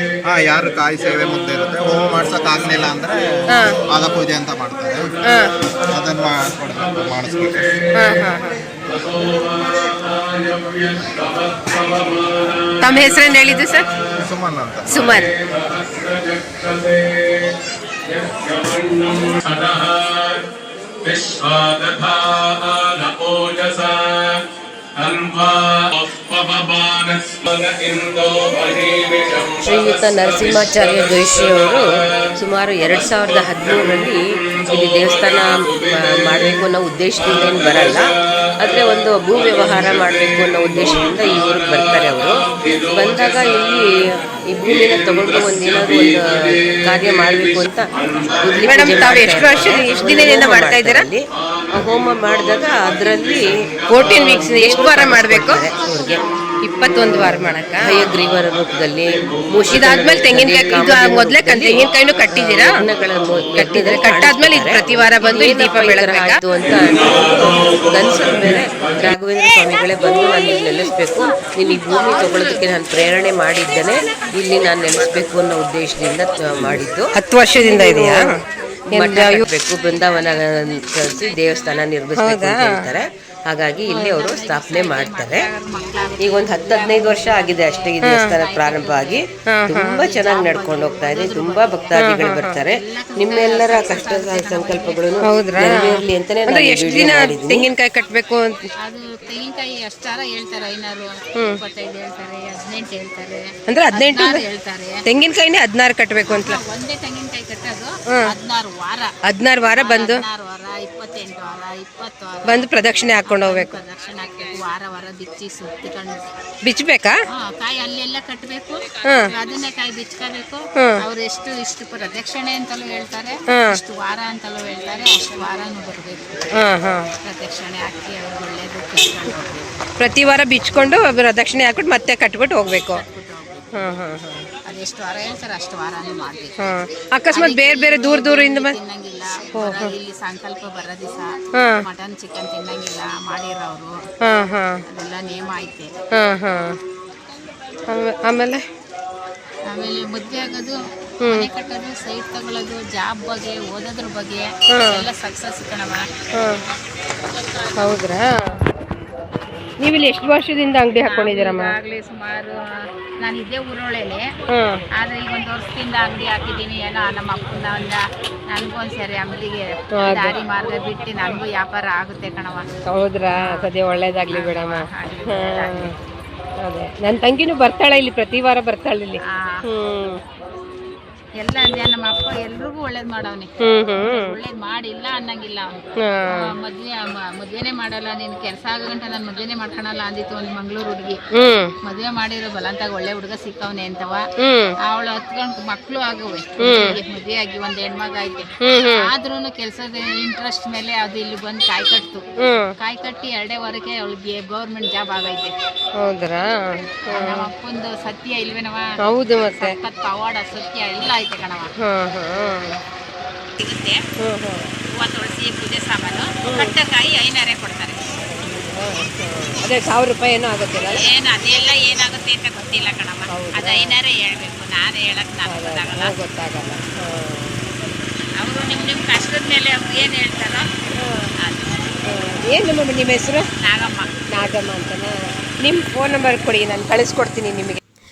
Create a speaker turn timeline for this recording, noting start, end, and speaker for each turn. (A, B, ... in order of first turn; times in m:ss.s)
0:00.2-0:05.0 A
0:03.5-0:03.8 B
0:05.3-0:05.5 B
0:05.9-0:07.8 A
0:08.0-0:08.6 B
0:12.7-0:13.9 B
0:14.1-0:15.2 A
0:14.9-0:15.3 B
0:29.6-0:38.1 C
0:38.6-0:56.2 C
0:48.6-0:51.0 B
0:53.9-0:55.7 B
0:56.6-0:58.1 B
0:57.8-1:18.3 C
0:59.7-1:02.8 B
1:03.6-1:06.4 B
1:17.2-1:18.4 B
1:18.9-1:19.5 B
1:18.9-1:25.5 C
1:19.9-1:21.8 D
1:22.2-1:22.9 B
1:23.9-1:29.2 D
1:26.2-1:37.7 C
1:28.0-1:28.4 B
1:29.5-1:30.0 B
1:29.9-1:32.0 D
1:32.0-1:32.6 B
1:32.6-1:35.2 D
1:35.2-1:38.6 B
1:38.8-1:45.0 D
1:43.7-1:44.4 B
1:45.1-1:46.6 B
1:46.3-1:49.1 D
1:49.3-1:50.2 B
1:49.7-1:56.2 D
1:52.5-1:53.7 B
1:56.7-1:57.2 B
1:57.3-2:06.5 D
1:59.0-1:59.3 B
2:03.5-2:03.8 B
2:06.6-2:07.1 B
2:07.2-2:09.7 D
2:10.0-2:13.0 B
2:12.8-2:13.7 D
2:13.8-2:14.5 B
2:14.7-2:16.6 D
2:16.6-2:18.8 B
2:17.3-2:24.0 D
2:19.6-2:19.9 B
2:24.2-2:24.8 B
2:24.9-2:25.9 D
2:26.2-2:26.8 B
2:27.9-2:28.6 B
2:29.7-2:36.1 D
2:31.2-2:31.5 B
2:34.7-2:35.0 B
2:36.4-2:36.6 B
2:37.8-2:38.6 B
2:39.8-2:41.8 B
2:41.0-2:42.6 D
2:43.2-2:44.3 D
2:44.5-2:44.8 B
2:45.0-2:52.7 D
2:50.0-2:50.4 B
2:52.9-2:55.9 B
2:53.4-2:53.7 D
2:54.3-2:56.0 D
2:56.6-3:00.2 B
2:59.3-2:59.6 D
3:01.4-3:11.2 D
3:03.6-3:04.3 B
3:06.0-3:06.5 B
3:11.4-3:11.7 B
3:11.8-3:14.2 D
3:14.4-3:14.8 B
3:14.8-3:22.2 D
3:16.6-3:17.0 B
3:18.6-3:19.1 B
3:22.4-3:22.7 B
3:22.8-3:25.5 D
3:26.0-3:27.5 B
3:27.1-3:28.9 D
3:29.0-3:29.8 B
3:29.4-3:31.7 D
3:31.8-3:32.8 B
3:33.6-3:34.0 D
3:34.2-3:34.7 B
3:35.0-3:38.0 D
3:36.5-3:36.8 B
3:38.3-3:41.1 B
3:40.9-3:46.2 D
3:43.3-3:43.9 B
3:45.5-3:47.7 B
3:48.4-3:50.7 D
3:51.0-3:51.3 B
3:51.4-3:51.9 D
3:52.1-3:53.5 B
3:53.6-3:54.1 D
3:54.3-3:57.8 B